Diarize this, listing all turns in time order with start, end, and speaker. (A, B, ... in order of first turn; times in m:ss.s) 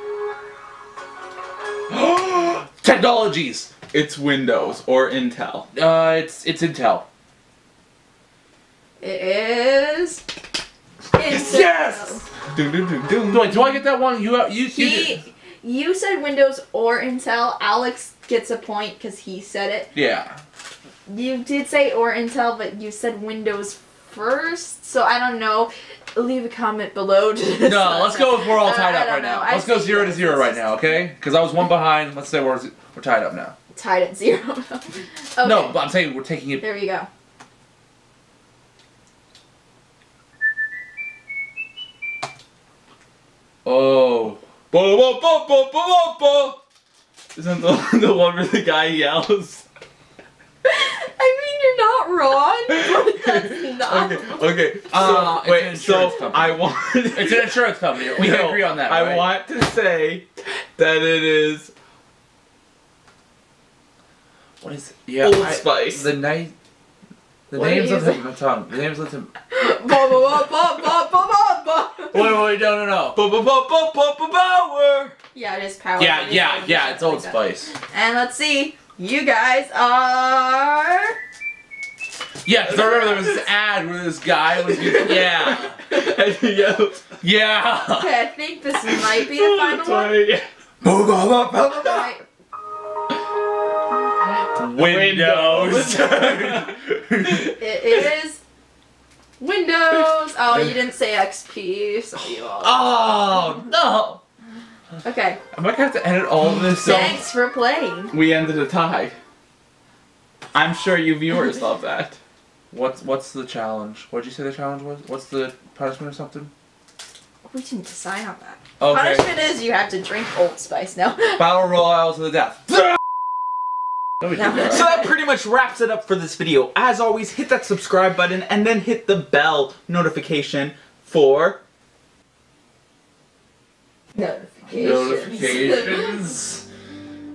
0:01.9-0:03.7 A
0:03.9-0:05.7 B
0:05.7-0:07.0 A
0:09.0-0:10.2 C
0:11.1-0:12.2 C
0:11.2-0:12.2 A
0:12.5-0:13.7 B
0:13.3-0:15.2 A
0:14.7-0:19.9 C
0:19.9-0:20.4 A
0:21.1-0:31.0 C
0:27.6-0:33.5 A
0:33.7-0:35.8 C
0:35.4-0:36.6 A
0:36.6-0:37.1 C
0:43.6-0:44.4 A
0:44.7-0:46.6 B
0:47.3-0:49.6 B
0:50.6-0:54.9 C
0:53.0-1:01.7 B
0:54.9-0:59.4 A
1:04.6-1:06.5 A
1:05.2-1:06.1 B
1:07.5-1:09.3 A
1:07.5-1:08.2 C
1:09.5-1:12.3 C
1:12.1-1:13.2 A
1:13.1-1:15.1 B
1:15.3-1:21.2 C
1:16.0-1:17.7 A
1:22.4-1:25.8 A
1:25.4-1:27.2 B
1:27.2-1:28.2 A
1:27.9-1:30.2 C
1:28.8-1:30.5 B
1:30.8-1:32.0 A
1:31.8-1:32.2 C
1:34.5-1:38.0 A
1:34.7-1:36.7 B
1:37.6-1:38.4 C
1:39.4-1:42.8 C
1:42.6-1:44.2 A
1:45.0-1:45.4 C
1:45.5-1:47.2 A
1:46.8-1:48.2 C
1:48.1-1:49.2 B
1:50.5-1:52.2 B
1:52.7-1:56.5 A
1:57.4-2:01.4 C
1:58.8-1:59.3 A
2:01.4-2:02.8 A
2:04.4-2:04.7 C
2:04.6-2:11.6 B
2:14.1-2:16.2 C
2:14.7-2:16.6 A